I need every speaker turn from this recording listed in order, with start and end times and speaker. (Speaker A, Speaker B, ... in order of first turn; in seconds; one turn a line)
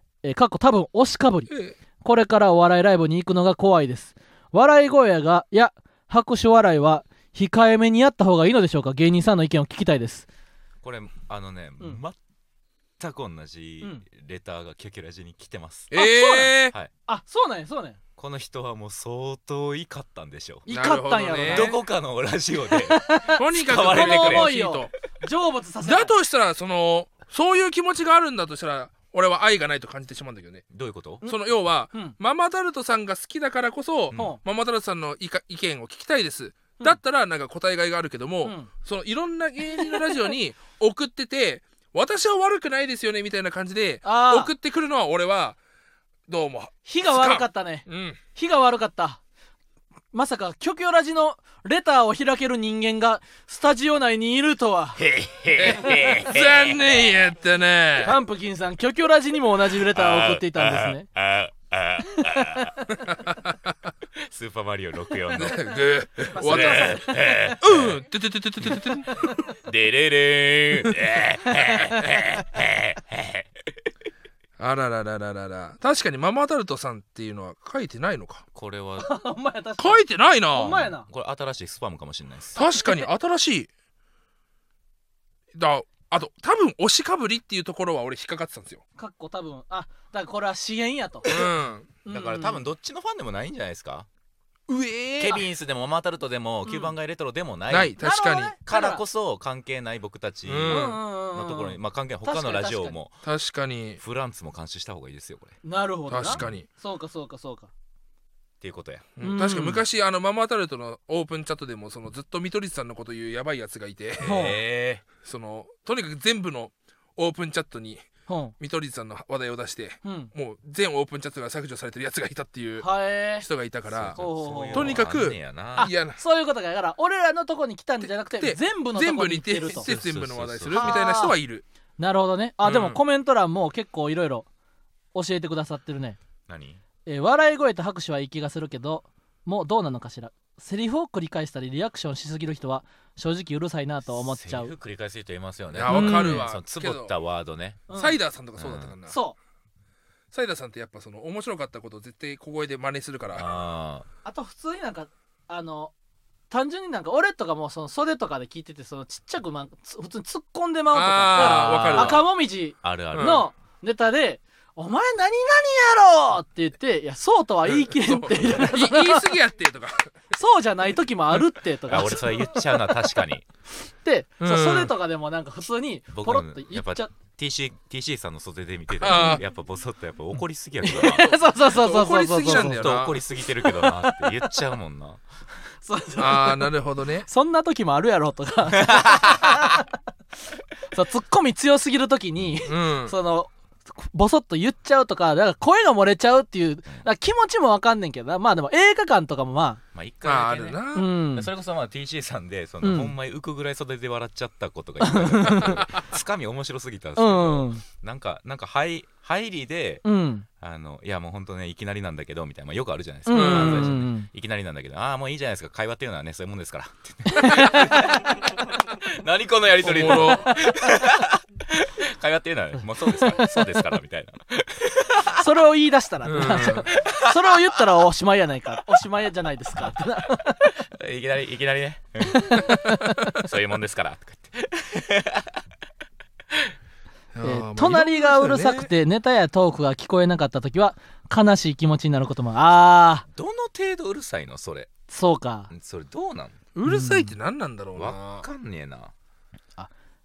Speaker A: 0.2-10.3
Speaker B: 1.5-1.8
Speaker C: 10.8-12.2
Speaker C: 13.0-15.9
Speaker B: 15.9-16.7
Speaker A: 15.9-16.5
Speaker A: 17.1-18.0
Speaker C: 18.2-20.7
Speaker A: 20.6-21.8
Speaker B: 20.7-21.8
Speaker C: 21.5-24.6
Speaker A: 22.7-26.1
Speaker B: 23.3-24.9
Speaker B: 25.8-30.6
Speaker C: 30.7-31.2
Speaker B: 31.2-45.6
Speaker C: 34.1-34.4
Speaker A: 34.1-34.4
Speaker A: 38.4-38.7
Speaker A: 44.0-44.5
Speaker B: 46.3-48.2
Speaker A: 46.9-49.2
Speaker A: 50.1-55.0
Speaker C: 55.0-57.1
Speaker B: 55.5-58.1
Speaker A: 58.0-61.1
Speaker C: 59.9-62.8
Speaker C: 64.2-65.8
Speaker B: 65.3-69.3
Speaker A: 66.3-67.1
Speaker C: 66.4-68.0
Speaker C: 69.6-73.7
Speaker B: 74.6-78.5
Speaker C: 78.5-79.1
Speaker A: 79.0-81.1
Speaker B: 79.8-80.9
Speaker C: 80.6-82.6
Speaker B: 82.5-83.7
Speaker B: 85.5-88.8
Speaker A: 89.0-91.4
Speaker B: 91.3-91.9
Speaker A: 92.0-92.6
Speaker C: 92.1-94.1
Speaker B: 94.7-95.4
Speaker C: 95.2-98.0
Speaker B: 97.7-98.5
Speaker A: 98.0-99.0
Speaker C: 98.7-103.2
Speaker B: 100.5-101.0
Speaker A: 100.7-103.0
Speaker B: 103.2-104.0
Speaker C: 104.0-105.6
Speaker A: 105.6-107.7
Speaker B: 106.1-106.7
Speaker C: 106.2-106.6
Speaker C: 108.6-109.1
Speaker B: 109.2-114.4
Speaker A: 109.2-109.8
Speaker C: 114.2-115.0
Speaker A: 114.2-114.6
Speaker B: 115.2-118.1
Speaker A: 118.3-118.5
Speaker B: 118.6-126.2
Speaker A: 120.0-120.3
Speaker A: 122.8-123.4
Speaker C: 123.9-125.9
Speaker A: 124.2-125.0
Speaker A: 125.8-129.9
Speaker B: 128.0-131.6
Speaker C: 129.8-131.0
Speaker A: 130.7-131.3
Speaker A: 132.0-134.5
Speaker B: 132.6-133.0
Speaker A: 135.1-136.2
Speaker C: 136.5-136.8
Speaker A: 137.1-144.7
Speaker C: 144.1-147.8
Speaker B: 145.7-147.1
Speaker A: 145.9-146.4
Speaker A: 147.9-148.2
Speaker B: 147.9-149.2
Speaker C: 148.6-148.9
Speaker A: 149.1-149.3
Speaker B: 150.3-153.5
Speaker C: 153.3-154.1
Speaker A: 154.2-155.9
Speaker A: 156.5-169.3
Speaker B: 160.9-162.2
Speaker C: 161.3-162.2
Speaker C: 162.8-163.4
Speaker B: 163.1-163.4
Speaker B: 167.7-170.1
Speaker A: 170.3-172.6
Speaker C: 171.9-173.4
Speaker A: 174.0-177.1
Speaker B: 174.4-174.9
Speaker C: 176.1-181.3
Speaker B: 179.0-179.4
Speaker A: 179.1-179.4
Speaker A: 180.8-182.8
Speaker B: 181.0-183.2
Speaker C: 182.4-185.2
Speaker A: 183.6-184.3
Speaker A: 185.8-186.7
Speaker B: 186.2-187.3
Speaker A: 187.2-189.9
Speaker C: 188.9-189.6
Speaker A: 190.9-199.8
Speaker B: 192.7-193.1
Speaker C: 199.9-200.8
Speaker B: 200.2-201.1
Speaker A: 200.9-201.5
Speaker C: 201.3-210.0
Speaker A: 202.8-203.1
Speaker A: 205.0-205.8
Speaker A: 207.2-207.8
Speaker A: 210.0-210.4
Speaker C: 210.6-225.4
Speaker A: 213.3-214.3
Speaker B: 213.3-213.9
Speaker A: 217.2-218.0
Speaker B: 219.8-220.5
Speaker A: 219.9-220.3
Speaker A: 223.0-223.8
Speaker A: 225.3-230.7
Speaker B: 226.3-226.9
Speaker C: 226.4-227.8
Speaker C: 230.8-235.6
Speaker A: 232.3-233.2
Speaker B: 237.3-238.9
Speaker A: 237.4-243.2
Speaker C: 243.3-244.9
Speaker A: 245.1-245.7
Speaker C: 245.7-246.6
Speaker B: 246.7-248.4
Speaker A: 246.8-247.3
Speaker C: 247.9-249.1